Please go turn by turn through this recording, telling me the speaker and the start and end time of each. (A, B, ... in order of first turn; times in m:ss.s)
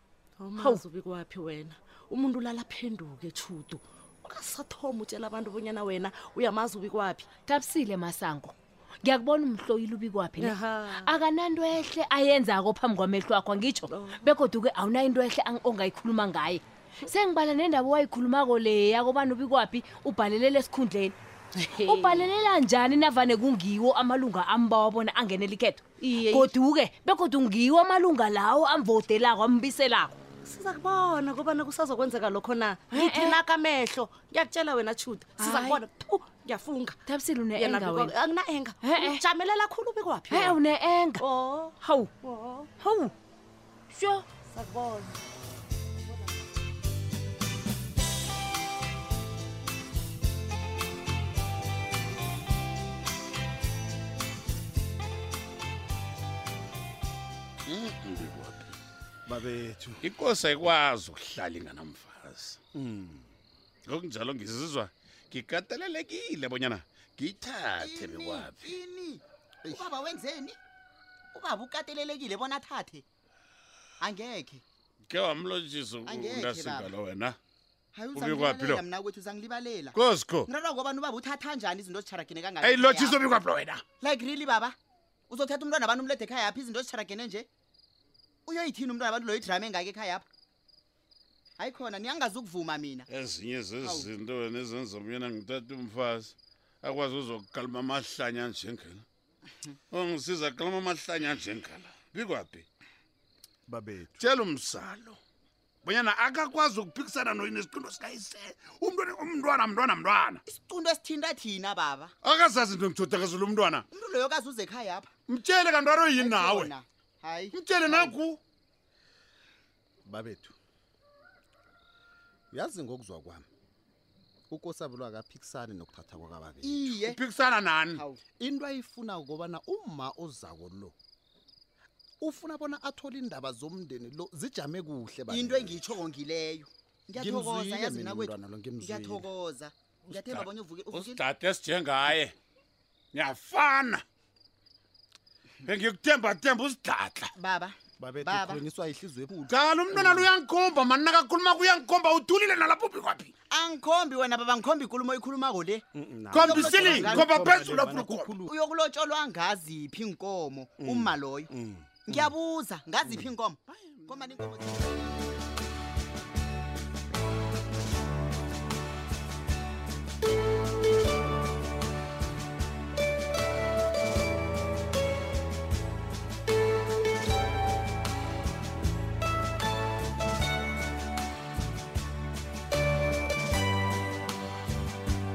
0:00.4-0:07.3 A
0:00.6-0:00.8 B
0:07.4-0:30.2 B
0:10.4-0:11.1 A
0:13.9-0:14.2 A
0:30.5-0:37.0 A
0:32.9-0:33.4 B
0:35.4-0:35.8 B
0:37.0-0:38.2 B
0:37.6-0:40.5 A
0:38.8-0:39.2 B
0:40.3-0:42.1 B
0:42.2-0:42.7 A
0:42.8-0:43.1 B
0:43.9-0:44.2 B
0:44.8-0:45.1 A
0:57.7-0:58.7 C
0:59.3-1:00.0 D
1:00.0-1:02.6 C
1:02.8-1:03.2 D
1:03.9-1:08.8 C
1:07.8-1:10.6 E
1:11.3-1:13.0 E
1:14.0-1:14.6 E
1:15.1-1:17.4 C
1:16.1-1:16.9 E
1:17.9-1:23.2 E
1:18.1-1:18.8 C
1:19.9-1:20.5 C
1:22.6-1:23.8 C
1:24.0-1:24.8 E
1:25.3-1:27.5 E
1:28.5-1:30.2 E
1:31.6-1:33.1 E
1:33.1-1:39.0 C
1:33.8-1:34.1 E
1:39.9-1:42.7 C
1:43.7-1:44.2 D
1:44.2-1:45.2 C
1:45.8-1:50.4 C
1:50.5-1:52.1 E
1:52.2-1:53.9 C
1:53.9-1:55.1 E
1:55.3-1:56.8 C
1:56.2-1:58.2 E
1:57.5-1:58.4 C
2:00.1-2:00.6 D
2:02.5-2:03.5 D
2:04.5-2:06.9 D
2:06.6-2:07.2 E
2:06.9-2:08.0 C
2:08.0-2:08.2 E
2:08.4-2:10.9 D
2:12.2-2:15.9 D
2:15.3-2:21.2 E
2:17.2-2:19.3 D
2:20.1-2:22.4 C
2:23.1-2:24.0 C
2:25.6-2:27.3 C
2:27.4-2:28.6 E
2:28.0-2:30.3 D
2:29.5-2:33.3 C
2:33.5-2:37.7 E
2:35.9-2:38.5 D
2:36.3-2:38.4 C
2:38.5-2:41.5 E
2:40.8-2:42.3 D
2:42.1-2:45.0 E
2:43.1-2:43.3 D